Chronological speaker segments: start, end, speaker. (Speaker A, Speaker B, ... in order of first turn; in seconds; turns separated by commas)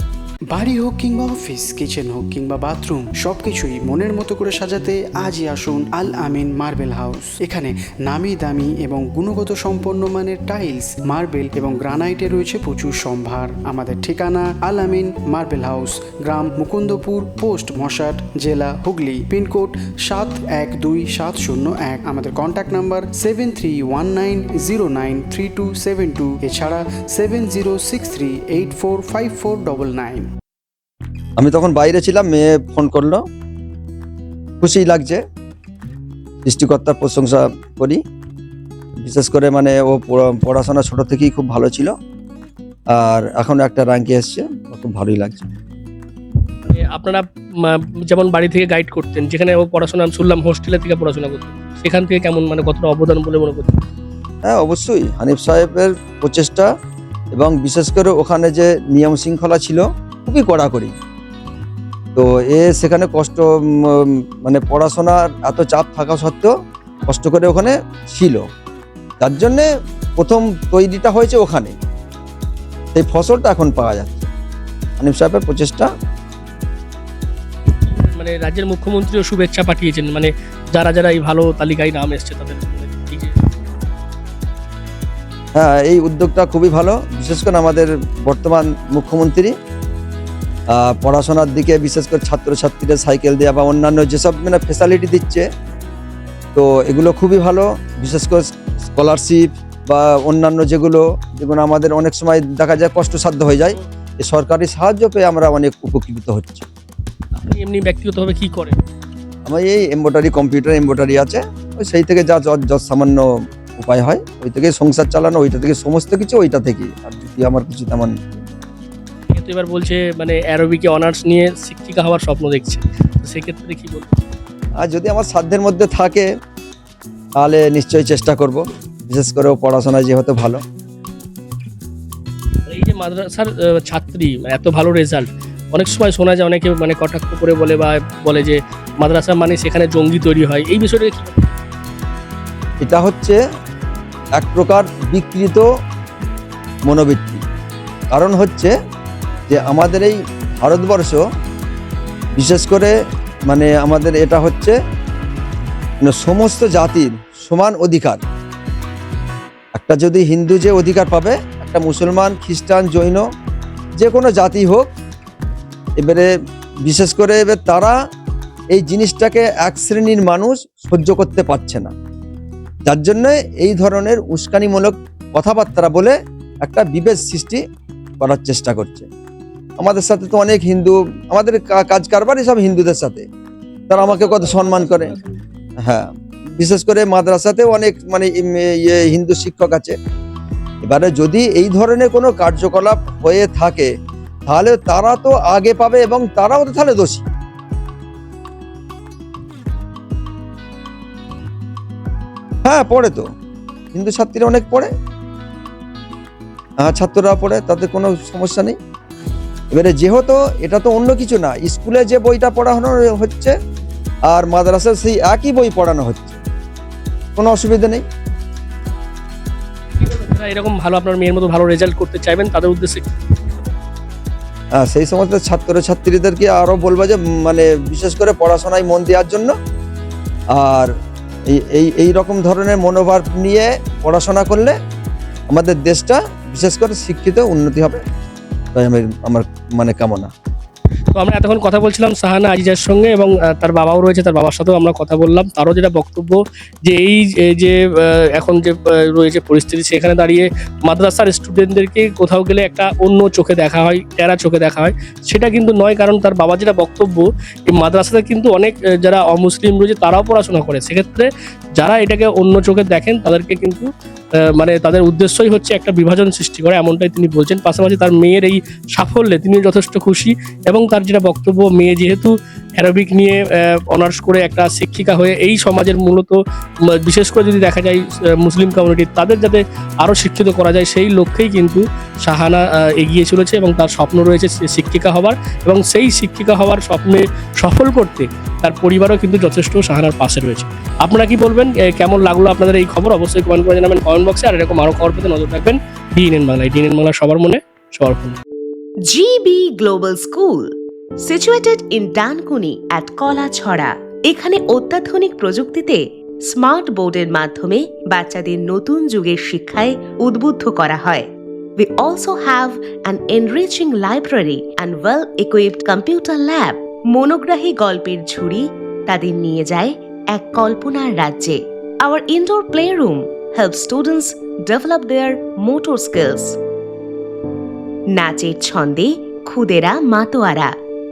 Speaker A: 0.5-30.3, Speaker B: 31.4-33.2, Speaker B: 34.6-35.2, Speaker B: 36.4-38.0, Speaker B: 39.0-41.9, Speaker B: 42.9-45.5, Speaker C: 46.7-53.8, Speaker B: 54.5-56.7, Speaker B: 57.3-60.9, Speaker B: 62.2-66.5, Speaker B: 67.1-68.4, Speaker B: 69.2-71.7, Speaker B: 72.9-74.3, Speaker B: 75.0-75.9, Speaker C: 77.8-83.4, Speaker B: 85.6-89.5, Speaker B: 90.7-95.5, Speaker B: 96.5-106.7, Speaker C: 107.3-108.8, Speaker B: 109.5-113.2, Speaker B: 113.8-118.5, Speaker C: 119.3-124.2, Speaker B: 124.8-126.3, Speaker B: 127.4-130.6, Speaker C: 132.7-141.5, Speaker B: 142.8-143.4, Speaker B: 144.4-145.7, Speaker B: 146.9-147.4, Speaker B: 148.1-148.7, Speaker B: 149.5-151.2, Speaker B: 152.4-152.9, Speaker B: 153.5-154.8, Speaker B: 156.0-158.2, Speaker B: 159.8-163.2, Speaker B: 164.0-164.9, Speaker B: 166.0-166.3, Speaker B: 166.9-167.9, Speaker B: 168.7-171.9, Speaker B: 172.9-177.6, Speaker B: 178.2-179.1, Speaker B: 179.8-183.3, Speaker B: 183.9-185.1, Speaker C: 183.9-185.4, Speaker B: 185.8-189.9, Speaker B: 190.8-193.9, Speaker B: 194.5-197.3, Speaker B: 202.7-203.2, Speaker B: 203.9-204.9, Speaker B: 206.8-208.8, Speaker B: 209.7-213.5, Speaker B: 214.3-216.4, Speaker B: 217.4-218.0, Speaker C: 220.0-223.1, Speaker B: 224.8-229.5, Speaker B: 230.5-230.9, Speaker B: 231.6-234.7, Speaker B: 235.5-238.0, Speaker B: 238.8-240.3, Speaker C: 241.1-263.9, Speaker C: 264.6-276.4, Speaker C: 276.9-298.4, Speaker D: 299.1-300.7, Speaker D: 301.2-326.6, Speaker D: 328.1-330.8